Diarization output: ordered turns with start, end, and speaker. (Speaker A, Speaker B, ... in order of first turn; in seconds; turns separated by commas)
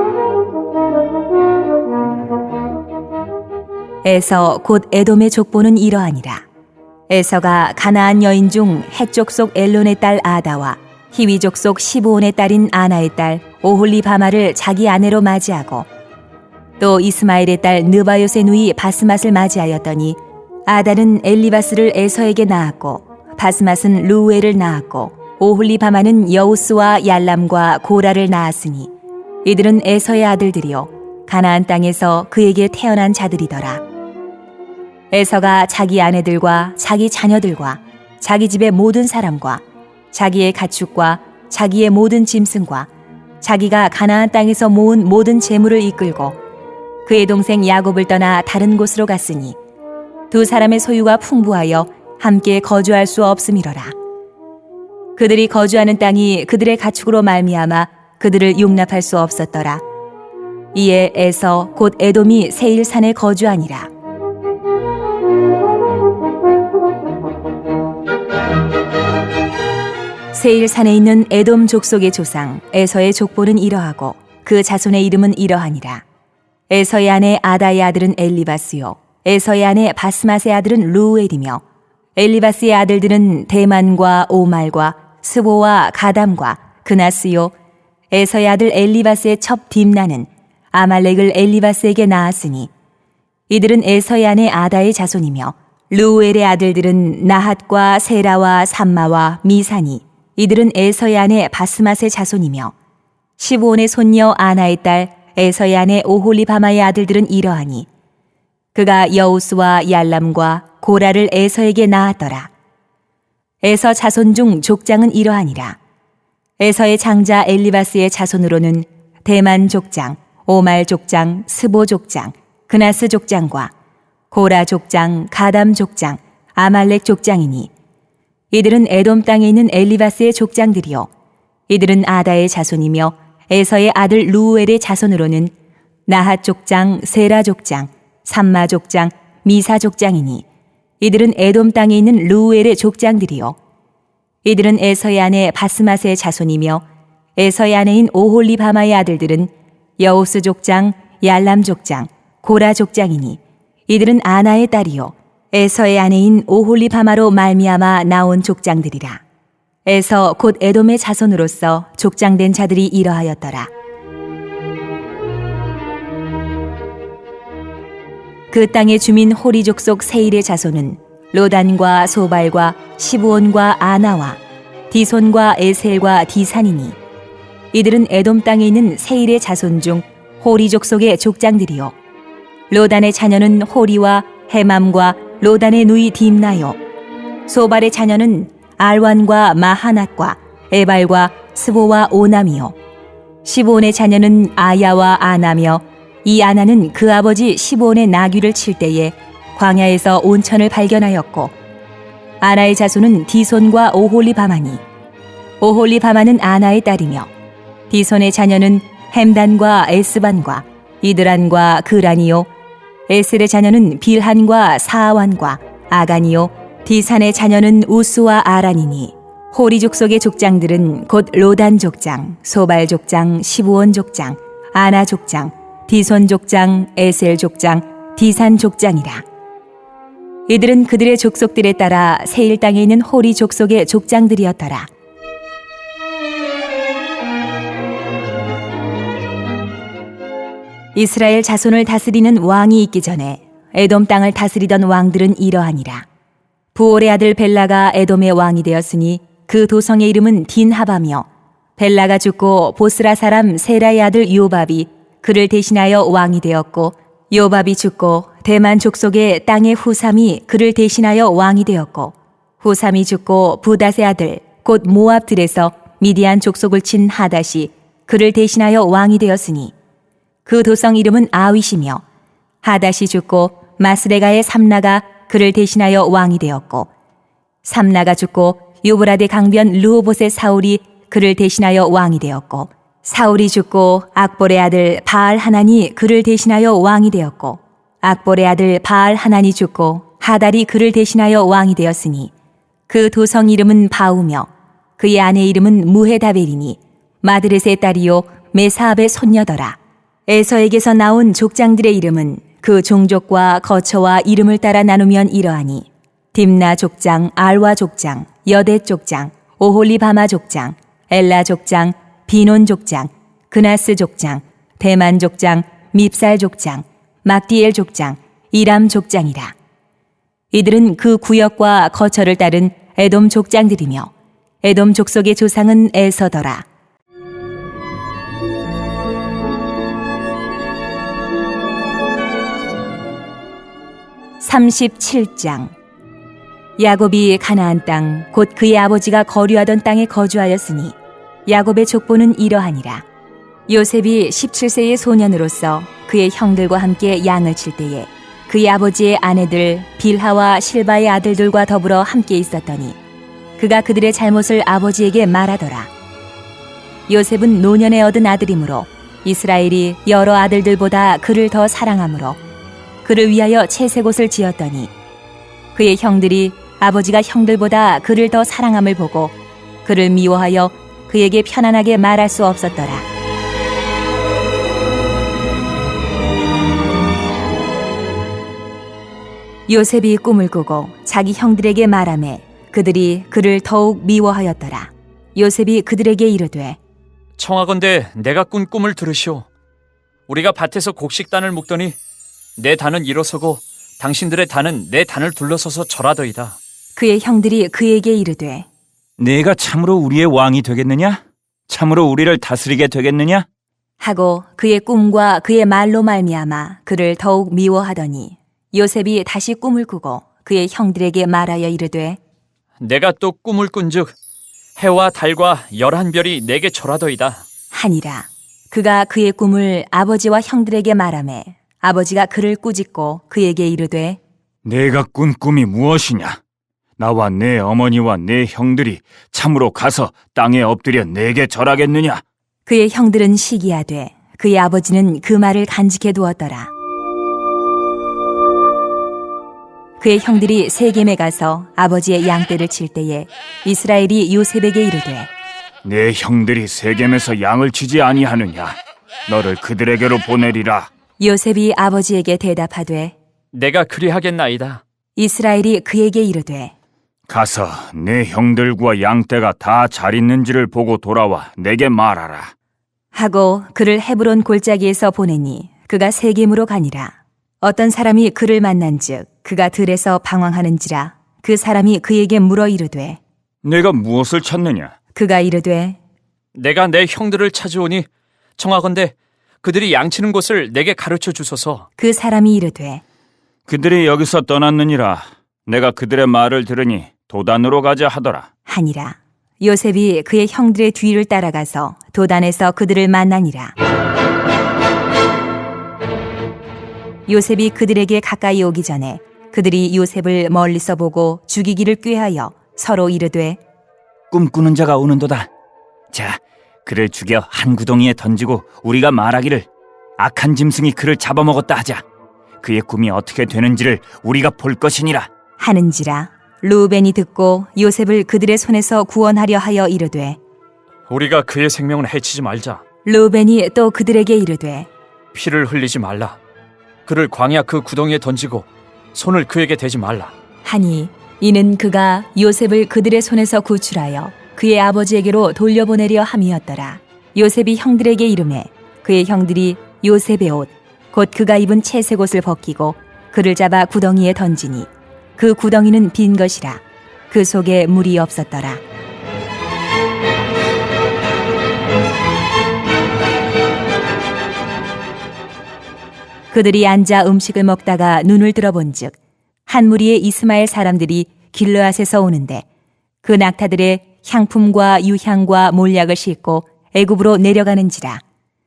Speaker A: 4.0-6.4, Speaker A: 7.1-15.9, Speaker A: 16.8-28.9, Speaker A: 29.4-33.8, Speaker A: 35.1-42.9, Speaker A: 43.4-46.4, Speaker A: 47.0-49.6, Speaker A: 50.3-53.9, Speaker A: 55.1-59.8, Speaker A: 60.7-63.9, Speaker A: 70.3-76.0, Speaker A: 76.7-81.6, Speaker A: 82.2-87.5, Speaker A: 88.1-92.7, Speaker A: 93.5-102.7, Speaker A: 103.4-107.9, Speaker A: 108.7-112.5, Speaker A: 113.6-115.8, Speaker A: 116.6-123.7, Speaker A: 124.3-127.7, Speaker A: 128.5-131.1, Speaker A: 131.7-135.5, Speaker A: 136.1-140.4, Speaker A: 141.0-143.6, Speaker A: 144.4-146.8, Speaker A: 147.3-159.2, Speaker A: 159.8-163.7, Speaker A: 168.5-174.4, Speaker A: 174.9-176.9, Speaker A: 177.7-181.9, Speaker A: 182.7-186.8, Speaker A: 187.5-192.7, Speaker A: 193.4-201.5, Speaker A: 202.4-204.8, Speaker A: 205.6-207.3, Speaker A: 207.9-212.5, Speaker A: 213.1-229.2, Speaker A: 230.5-234.9, Speaker A: 240.9-246.1, Speaker A: 246.7-269.7, Speaker A: 270.4-272.0, Speaker A: 272.6-276.9, Speaker A: 277.6-292.3, Speaker A: 292.9-319.5, Speaker A: 320.5-324.1, Speaker A: 324.6-326.6, Speaker A: 334.4-335.7, Speaker A: 336.8-343.0, Speaker A: 343.7-353.0, Speaker A: 353.6-355.9, Speaker A: 357.1-362.4, Speaker A: 363.0-364.9, Speaker A: 365.7-373.1, Speaker A: 379.7-386.8, Speaker B: 387.4-389.5, Speaker B: 390.3-391.9, Speaker B: 392.6-396.6, Speaker A: 396.9-398.7, Speaker C: 399.2-403.4, Speaker A: 404.0-412.2, Speaker B: 412.8-414.1, Speaker B: 414.8-417.4, Speaker A: 417.7-424.2, Speaker C: 424.6-426.4, Speaker C: 427.0-432.2, Speaker A: 432.6-436.7, Speaker A: 440.0-445.3, Speaker C: 445.8-448.8, Speaker C: 449.3-450.9, Speaker A: 451.2-453.1, Speaker B: 453.5-454.8, Speaker A: 455.1-456.7, Speaker C: 457.3-462.5, Speaker A: 463.1-473.2, Speaker C: 473.6-474.9, Speaker A: 475.1-476.0, Speaker B: 476.5-481.9, Speaker A: 482.0-483.0, Speaker C: 483.7-488.5, Speaker A: 488.7-493.7, Speaker A: 497.3-503.6, Speaker C: 504.3-505.5, Speaker C: 506.1-512.0, Speaker C: 512.6-515.3, Speaker A: 515.6-520.4, Speaker B: 521.1-522.8, Speaker A: 523.0-524.9, Speaker B: 525.3-526.4, Speaker B: 527.0-530.3, Speaker A: 530.6-548.8, Speaker A: 556.5-559.1, Speaker A: 559.7-562.6, Speaker A: 563.2-568.2